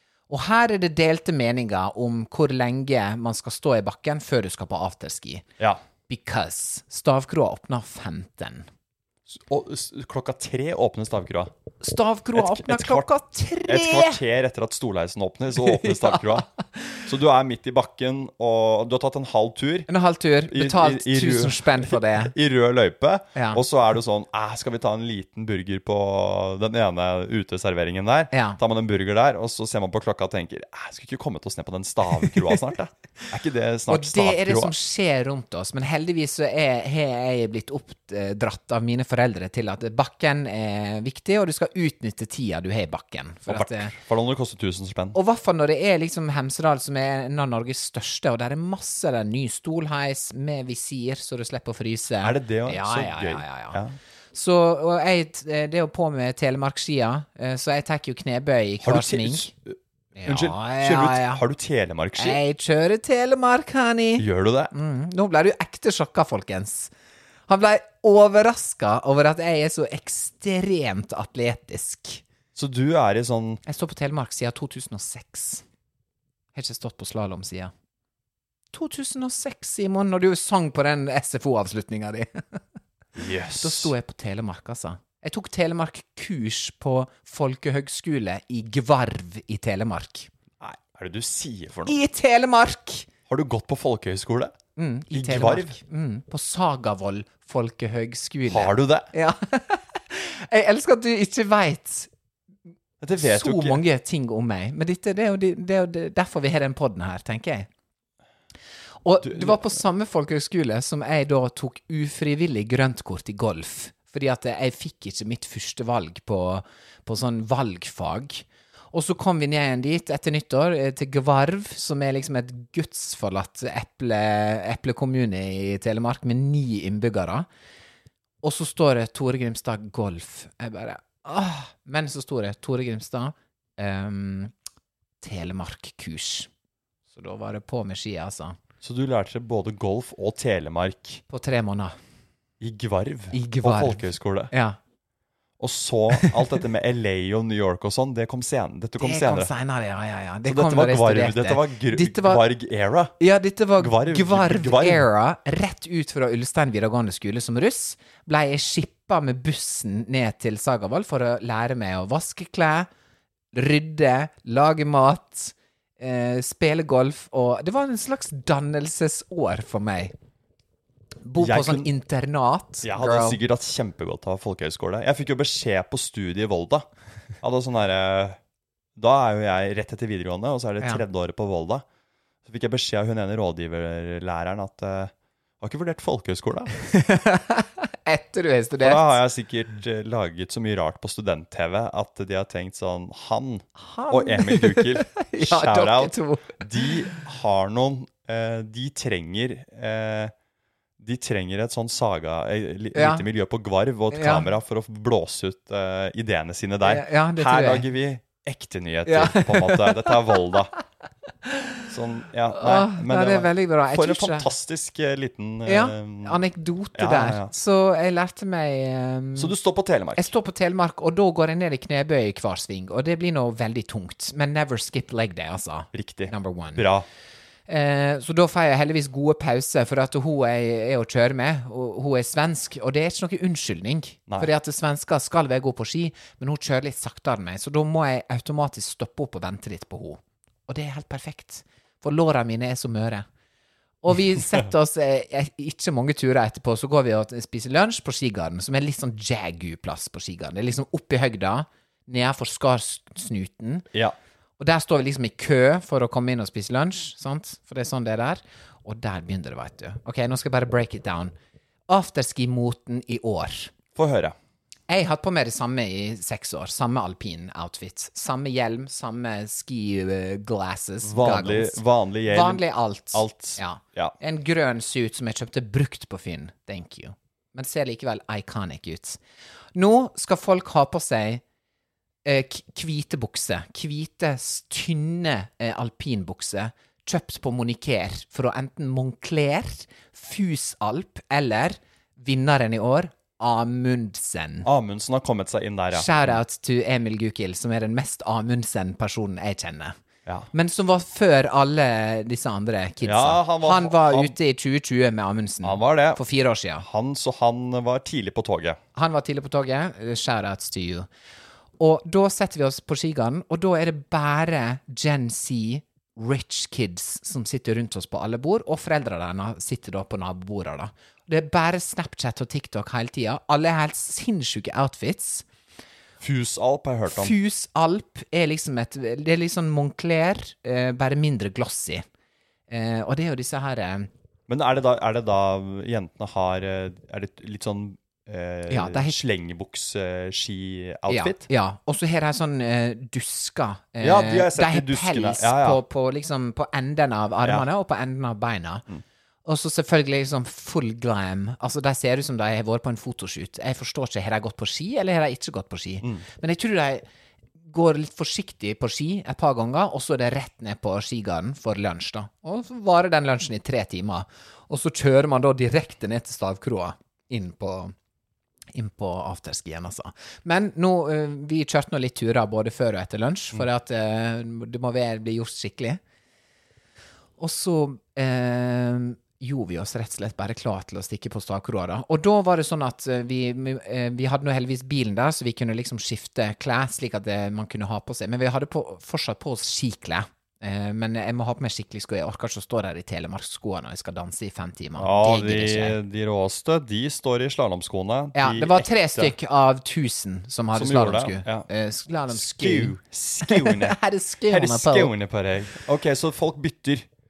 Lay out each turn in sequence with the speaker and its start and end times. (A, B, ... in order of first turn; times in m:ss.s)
0:00.3-0:05.4 A
0:06.1-0:08.7 A
0:09.3-0:11.5 B
0:11.8-0:14.2 A
0:12.3-0:13.1 B
0:13.6-0:16.5 B
0:15.6-0:16.5 A
0:17.0-0:19.9 B
0:19.9-0:22.3 A
0:20.5-0:34.7 B
0:23.4-0:23.6 A
0:28.3-0:28.6 A
0:33.9-0:43.9 A
0:43.5-0:45.2 B
0:45.1-0:53.8 A
0:52.2-0:54.0 B
0:54.3-0:59.5 A
0:58.8-1:02.4 B
1:00.1-1:01.4 A
1:02.2-1:06.9 A
1:04.2-1:04.7 B
1:07.5-1:12.2 A
1:12.5-1:13.6 B
1:13.6-1:15.6 A
1:16.5-1:17.7 A
1:18.7-1:22.6 A
1:23.2-1:23.9 B
1:23.6-1:30.3 A
1:30.6-1:32.0 B
1:31.8-1:33.1 A
1:33.3-1:34.5 B
1:34.8-1:42.1 A
1:35.1-1:35.8 B
1:38.5-1:39.1 B
1:43.0-1:43.8 B
1:43.2-1:47.7 A
1:49.0-2:07.5 A
1:49.2-1:49.8 B
2:08.4-2:14.5 A
2:15.2-2:16.5 A
2:17.1-2:18.6 A
2:18.8-2:21.2 B
2:21.3-2:22.0 A
2:22.6-2:24.5 B
2:23.3-2:24.8 A
2:25.6-2:29.5 B
2:29.0-2:32.4 A
2:30.4-2:33.2 B
2:33.2-2:42.9 A
2:33.8-2:35.0 B
2:43.5-2:50.1 A
2:51.2-2:53.4 A
2:51.4-2:51.9 B
2:52.8-2:56.8 B
2:57.4-2:58.4 B
2:59.0-3:01.8 B
3:02.4-3:06.8 B
3:06.8-3:09.2 A
3:08.8-3:20.3 B
3:13.8-3:16.6 A
3:21.0-3:30.7 B
3:22.9-3:23.2 A
3:24.1-3:24.5 A
3:26.8-3:27.8 A
3:29.0-3:30.2 A
3:31.9-3:36.4 B
3:32.5-3:34.4 A
3:35.6-3:39.5 A
3:36.9-3:37.5 B
3:39.3-3:40.3 B
3:40.2-3:46.9 A
3:45.9-3:47.1 B
3:47.7-4:03.2 A
4:04.0-4:13.8 A
4:14.6-4:21.3 A
4:21.9-4:23.7 A
4:23.9-4:24.3 B
4:24.9-4:39.2 A
4:31.0-4:34.1 B
4:39.7-4:41.4 A
4:42.2-4:54.7 A
4:54.6-4:56.4 B
4:55.9-5:00.0 A
5:00.5-5:06.8 A
5:03.0-5:04.4 B
5:05.6-5:06.2 B
5:06.8-5:08.8 B
5:08.9-5:11.1 A
5:11.8-5:25.4 A
5:26.2-5:27.4 B
5:27.1-5:32.0 A
5:32.7-5:34.1 A
5:34.5-5:41.5 B
5:38.7-5:39.2 A
5:41.1-5:48.8 A
5:44.0-5:45.8 B
5:49.4-5:57.0 A
5:57.7-6:07.9 A
6:08.7-6:16.0 A
6:17.4-6:36.0 A
6:35.0-6:39.3 B
6:38.4-6:42.9 A
6:40.7-6:41.7 B
6:42.3-6:44.0 B
6:43.5-6:45.1 A
6:44.5-6:47.1 B